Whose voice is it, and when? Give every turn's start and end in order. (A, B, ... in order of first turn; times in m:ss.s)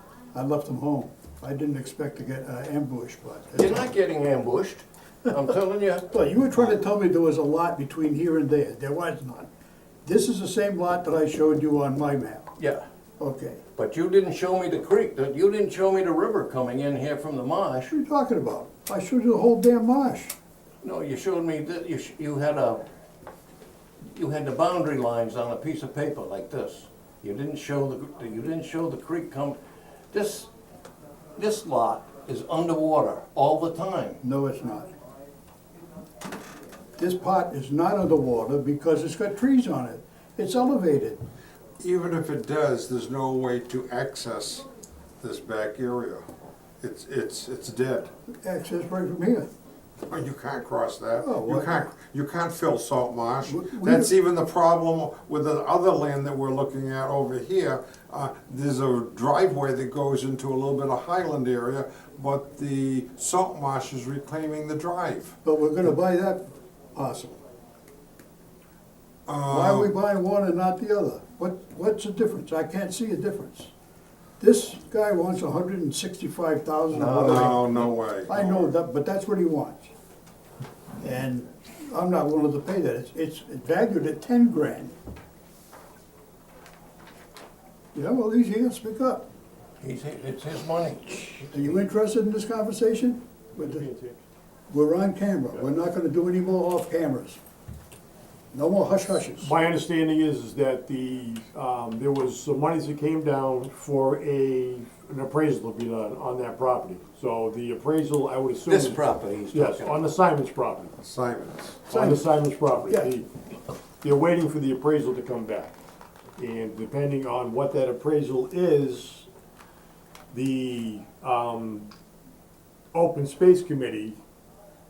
0:00.3-0:03.9 A
0:03.6-0:06.1 B
0:06.1-0:09.5 A
0:10.0-0:12.5 A
0:12.6-0:12.8 B
0:13.2-0:13.6 A
0:13.8-0:17.9 B
0:17.9-0:20.3 A
0:20.8-0:22.8 B
0:24.1-0:29.6 B
0:30.1-0:30.5 B
0:31.4-0:34.2 B
0:34.2-0:34.9 A
0:37.0-0:41.2 A
0:41.8-0:44.7 C
0:45.2-0:46.2 C
0:46.8-0:48.1 C
0:48.3-0:49.4 A
0:50.1-1:05.4 C
0:51.2-0:51.9 A
0:53.4-0:54.1 A
1:05.4-1:07.4 A
1:09.3-1:09.9 C
1:09.5-1:13.7 A
1:14.4-1:19.9 A
1:16.9-1:17.5 B
1:17.0-1:18.7 C
1:21.0-1:24.9 A
1:27.9-1:29.2 A
1:29.8-1:31.5 B
1:31.5-1:33.8 A
1:33.6-1:34.2 D
1:34.7-1:37.4 A
1:38.5-1:39.5 A
1:39.4-1:49.0 D
1:48.7-1:50.0 B
1:49.5-1:50.9 D
1:51.0-1:51.9 C
1:51.9-1:53.3 D
1:51.9-1:52.3 A
1:54.0-1:55.7 D
1:56.4-1:59.3 D
2:00.3-2:01.9 D
2:02.9-2:04.2 D